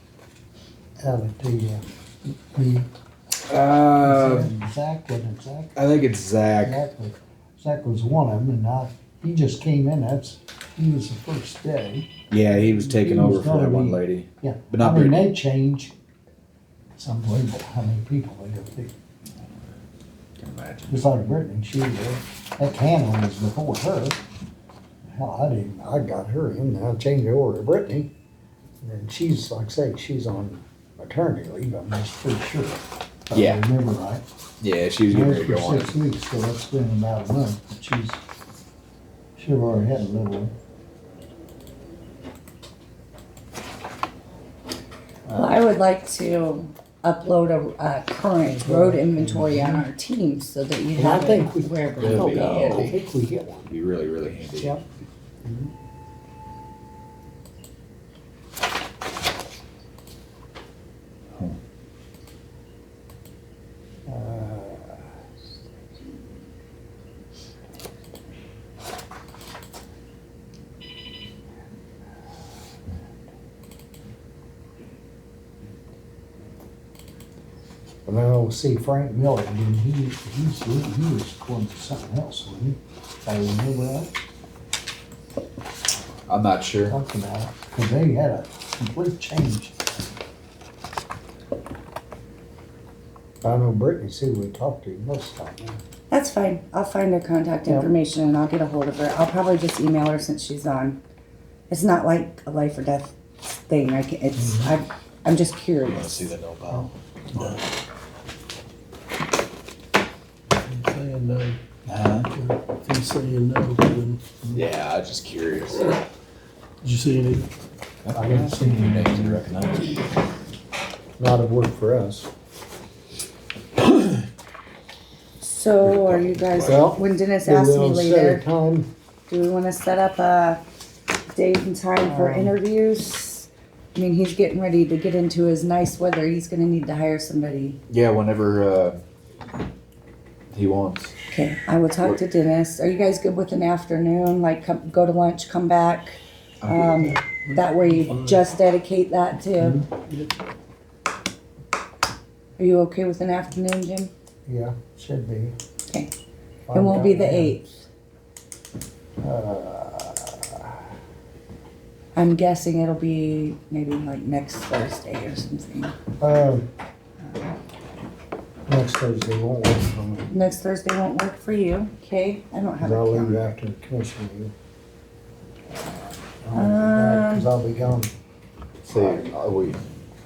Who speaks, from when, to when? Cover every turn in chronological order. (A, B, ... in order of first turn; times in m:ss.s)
0:01.0-0:01.8 A
0:02.3-0:02.9 A
0:03.5-0:04.5 B
0:04.0-0:05.8 A
0:05.8-0:06.8 B
0:06.6-0:12.1 A
0:12.3-0:15.2 B
0:12.7-0:15.9 A
0:17.0-0:18.9 A
0:20.4-0:21.1 B
0:20.9-0:24.2 A
0:25.1-0:28.1 A
0:28.8-0:34.2 A
0:33.3-0:33.6 B
0:34.6-0:36.0 B
0:35.1-0:38.2 A
0:39.4-0:40.5 A
0:45.2-0:45.6 A
0:45.3-0:52.9 C
0:48.4-0:49.9 A
0:51.0-0:53.7 A
0:52.0-0:53.0 B
0:53.7-0:54.8 B
0:54.5-0:54.9 A
0:55.4-0:55.7 A
1:04.0-1:05.1 A
1:18.0-1:24.1 A
1:26.3-1:27.0 B
1:26.9-1:29.8 A
1:33.4-1:35.8 A
1:36.1-1:41.0 C
1:37.6-1:37.9 A
1:41.7-1:43.1 C
1:43.7-1:46.2 C
1:44.4-1:44.7 A
1:45.8-1:46.9 B
1:46.7-1:47.6 A
1:50.6-1:51.6 D
1:51.8-1:52.3 B
1:52.3-1:54.2 D
1:54.5-1:56.0 B
1:56.8-1:57.5 D
1:58.0-2:00.1 B
1:58.1-1:59.4 A
2:01.2-2:02.3 A
2:05.4-2:08.4 C
2:05.8-2:06.9 B
2:06.6-2:08.9 A
2:09.3-2:10.6 C
2:11.3-2:17.8 C
2:12.0-2:12.6 A
2:17.9-2:19.0 B
2:20.5-2:21.1 B
2:21.3-2:29.8 C
2:26.6-2:26.9 B
2:26.7-2:28.5 D
2:29.6-2:29.8 A
2:29.9-2:30.3 D
2:32.6-2:34.1 C
2:34.4-2:35.5 A
2:36.7-2:37.6 A
2:36.7-2:37.8 C
2:39.2-2:40.8 A
2:42.1-2:46.0 C
2:46.2-2:46.7 A
2:48.7-2:50.3 A
2:50.3-2:53.5 C
2:52.8-2:54.5 A
2:56.4-2:58.1 A
2:56.5-2:57.5 C
2:58.8-2:59.8 B